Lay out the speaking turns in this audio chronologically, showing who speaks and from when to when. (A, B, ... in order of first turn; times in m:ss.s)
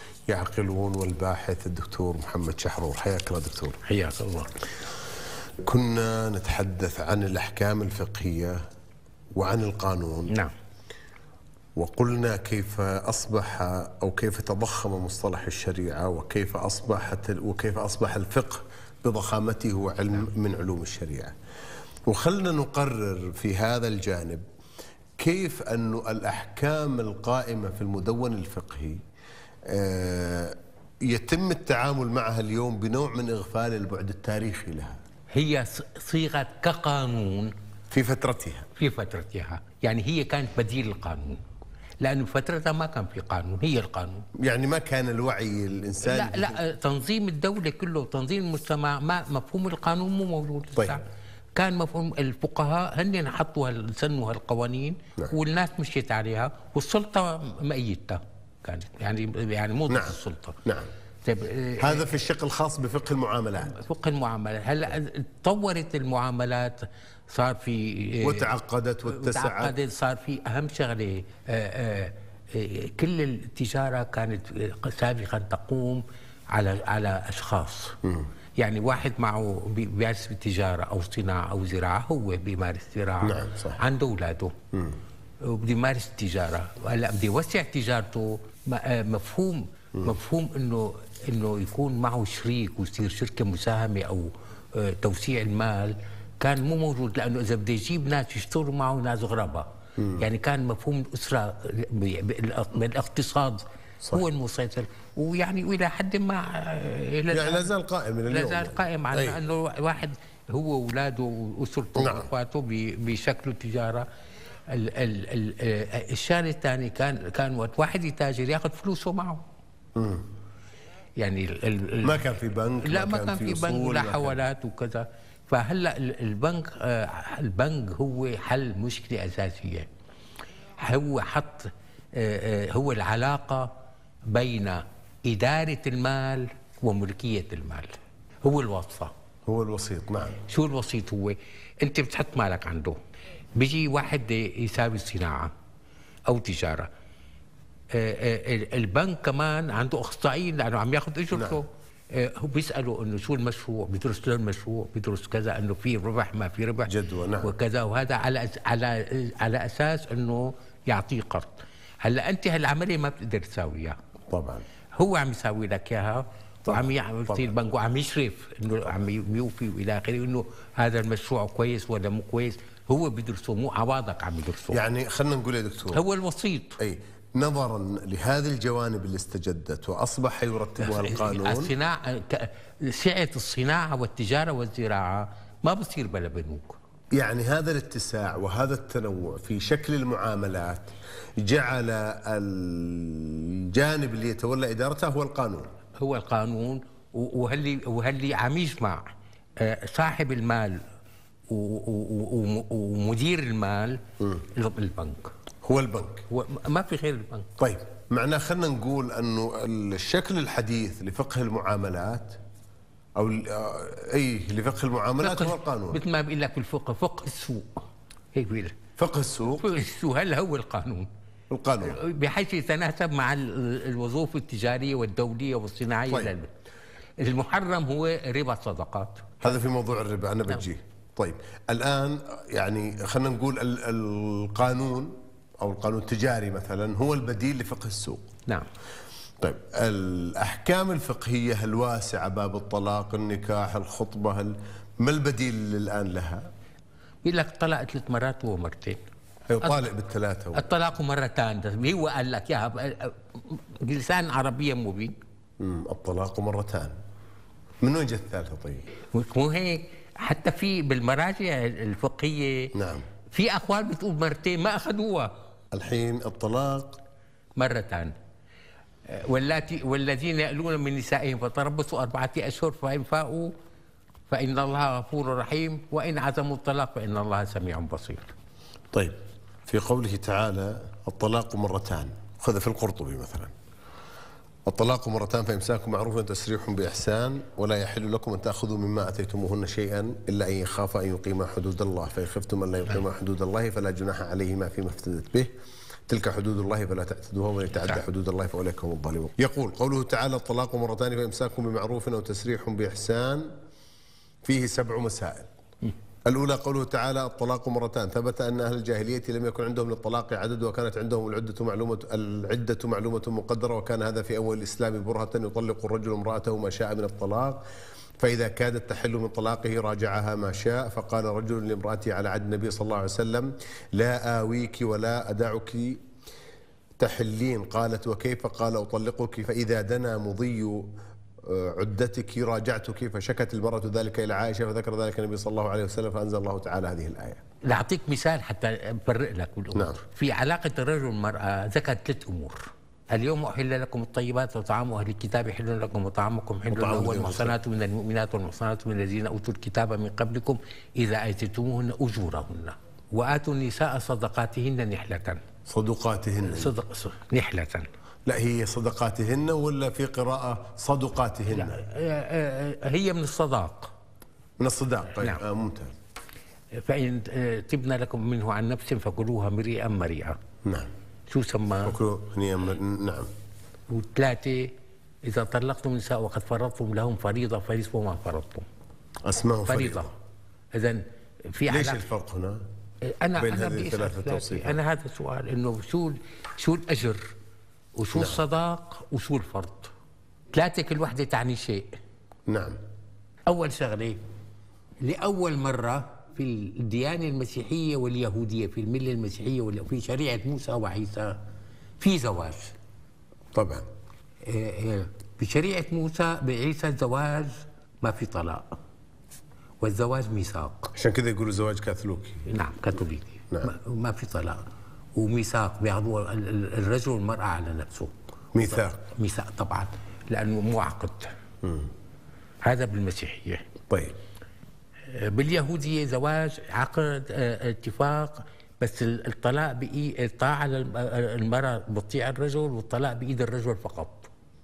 0:00.3-0:03.8 A
0:03.9-0:04.6 B
0:05.6-0:08.6 A
0:09.4-0:10.3 A
0:11.8-0:21.3 A
0:22.1-0:24.4 A
0:25.2-0:29.0 A
0:29.6-0:35.0 A
0:35.3-0:37.5 B
0:37.9-0:38.7 A
0:38.8-0:41.4 B
0:42.0-0:44.3 B
0:44.4-0:46.6 A
0:46.0-0:51.0 B
0:51.6-1:00.6 B
0:59.9-1:00.9 A
1:01.2-1:02.1 B
1:01.8-1:03.8 A
1:03.7-1:08.5 B
1:08.2-1:09.8 A
1:09.1-1:18.0 B
1:18.6-1:24.6 B
1:23.2-1:23.8 A
1:24.7-1:25.0 A
1:25.4-1:47.7 B
1:40.0-1:40.2 A
1:47.3-1:49.4 A
1:48.3-1:54.1 B
1:52.0-1:52.3 A
1:54.7-1:59.4 B
2:00.0-2:00.2 A
2:01.2-2:02.2 B
2:02.0-2:04.4 A
2:02.8-2:09.9 B
2:10.8-2:13.7 B
2:14.3-2:19.1 B
2:19.5-2:20.4 A
2:20.5-2:23.0 B
2:23.6-2:25.5 B
2:26.3-2:26.9 B
2:27.9-2:44.0 B
2:31.3-2:31.6 A
2:36.9-2:37.5 A
2:44.3-2:44.6 A
2:45.0-2:54.8 B
2:46.7-2:47.5 A
2:54.7-2:56.0 A
2:55.9-2:56.8 B
2:56.8-3:01.7 A
3:00.8-3:06.8 B
3:07.1-3:15.7 A
3:16.0-3:19.0 B
3:19.6-3:20.8 B
3:21.5-3:25.3 B
3:25.6-3:26.2 A
3:26.3-3:27.5 B
3:27.6-3:32.4 A
3:33.2-3:36.0 A
3:35.2-3:38.8 B
3:39.0-3:39.6 A
3:39.6-3:41.1 B
3:41.5-3:42.0 A
3:41.8-3:46.5 B
3:47.2-3:49.4 B
3:49.4-3:58.3 A
3:59.4-4:06.5 A
4:07.2-4:09.0 B
4:09.5-4:10.7 A
4:10.5-4:15.2 B
4:15.6-4:17.0 A
4:17.8-4:18.8 A
4:19.1-4:22.7 B
4:22.7-4:23.0 A
4:23.3-4:25.3 B
4:25.7-4:27.0 A
4:27.6-4:28.1 B
4:29.1-4:33.5 B
4:34.3-4:38.3 B
4:38.9-4:43.5 A
4:44.7-4:55.5 A
4:56.1-5:03.5 A
5:04.4-5:05.5 A
5:06.3-5:17.6 A
5:18.2-5:26.0 A
5:27.0-5:30.9 A
5:31.4-5:37.4 A
5:37.6-5:55.4 B
5:46.7-5:47.6 A
5:55.7-5:56.7 A
5:56.4-5:57.9 B
5:58.3-6:01.8 A
6:01.5-6:03.9 B
6:04.6-6:05.9 A
6:06.8-6:10.4 B
6:10.6-6:10.9 A
6:11.3-6:12.0 B
6:11.8-6:13.3 A
6:13.9-6:14.7 B
6:15.2-6:18.7 B
6:19.2-6:20.1 A
6:19.7-6:20.1 B
6:20.7-6:22.0 B
6:21.7-6:22.6 A
6:23.0-6:27.3 B
6:23.4-6:24.8 A
6:28.0-6:29.9 B
6:28.1-6:28.4 A
6:30.5-6:31.9 B
6:32.5-6:32.8 A
6:33.5-6:34.2 B
6:35.0-6:41.4 B
6:42.0-6:42.7 B
6:43.5-6:43.9 A
6:44.4-6:48.8 B
6:49.8-6:50.9 B
6:51.0-6:52.5 A
6:52.5-6:54.6 B
6:55.2-7:01.3 B
6:58.5-6:59.0 A
7:01.6-7:01.9 A
7:02.6-7:03.7 B
7:03.9-7:04.2 A
7:05.1-7:14.3 B